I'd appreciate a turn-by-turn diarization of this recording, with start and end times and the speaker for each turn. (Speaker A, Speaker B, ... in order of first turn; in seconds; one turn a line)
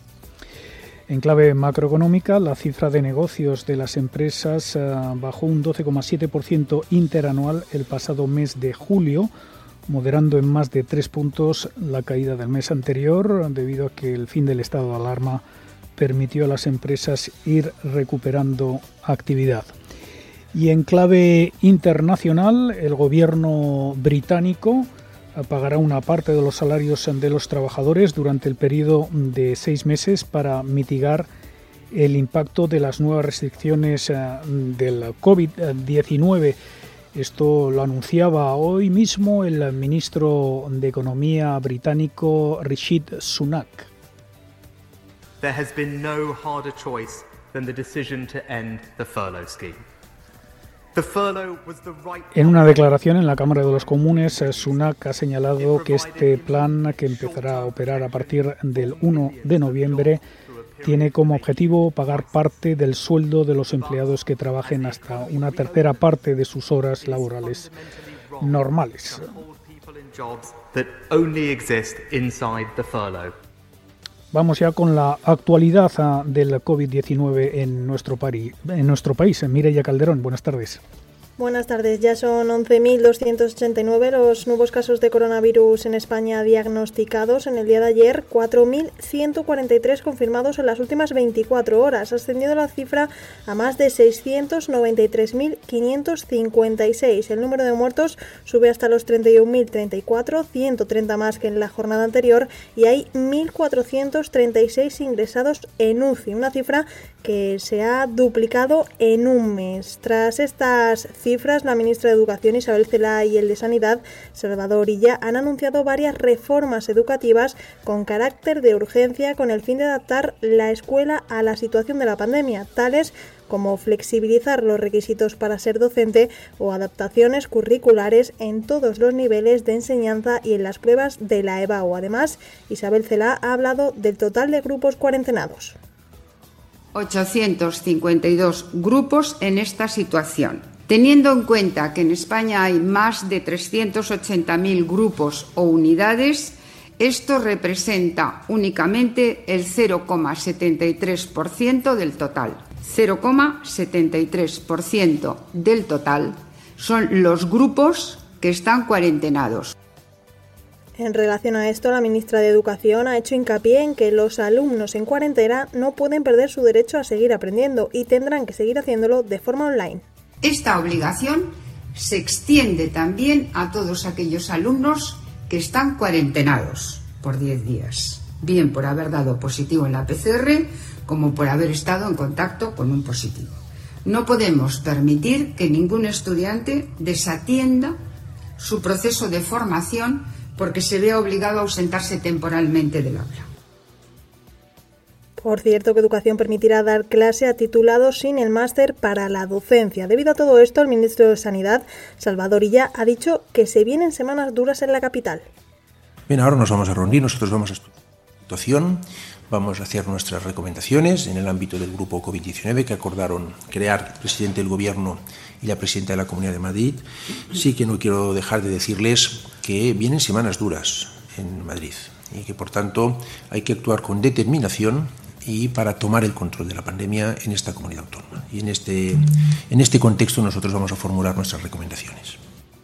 Speaker A: 1.1-9.3
Speaker A: 9.9-15.4
Speaker A: 16.0-19.7
Speaker A: 20.5-31.3
Speaker A: 31.9-36.6
Speaker A: 37.1-43.9
Speaker B: 45.4-49.9
Speaker B: 51.0-54.9
Speaker A: 52.3-60.2
Speaker B: 55.6-62.6
Speaker A: 60.8-67.7
Speaker B: 63.6-66.2
Speaker B: 66.9-73.4
Speaker A: 68.4-69.2
Speaker A: 74.3-80.8
Speaker C: 81.4-135.8
Speaker D: 136.9-159.7
Speaker C: 161.0-170.0
Speaker D: 170.4-183.6
Speaker D: 184.1-188.0
Speaker D: 188.6-193.5
Speaker C: 195.4-205.4
Speaker E: 206.3-207.9
Speaker E: 208.5-232.4